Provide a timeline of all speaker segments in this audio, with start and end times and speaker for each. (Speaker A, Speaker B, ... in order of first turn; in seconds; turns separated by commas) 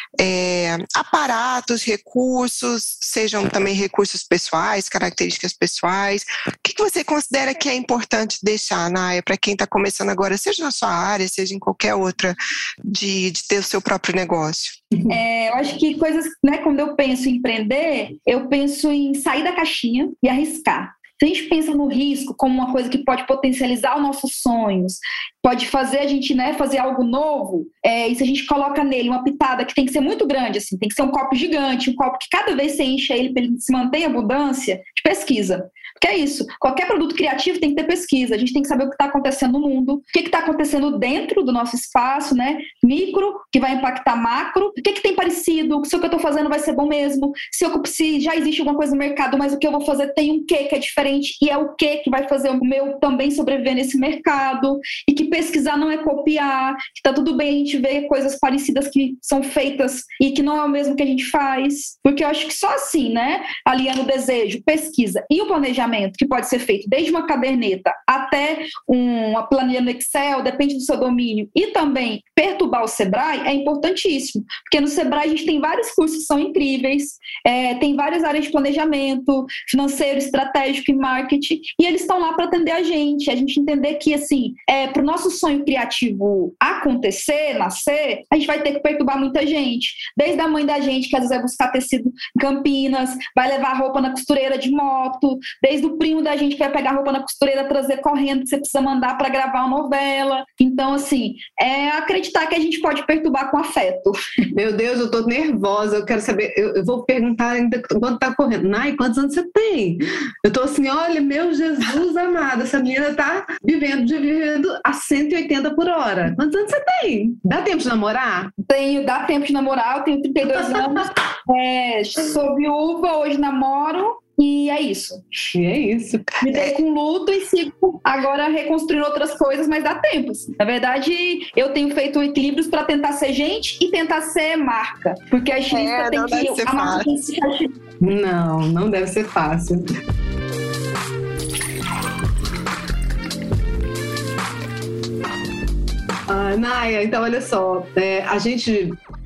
Speaker A: 0.2-14.8, Speaker B: 15.1-104.2, Speaker C: 104.5-118.5, Speaker B: 118.7-125.2, Speaker C: 120.5-121.1, Speaker C: 125.5-126.3, Speaker B: 126.4-137.7, Speaker A: 135.7-137.1, Speaker C: 138.0-139.8, Speaker C: 146.3-149.0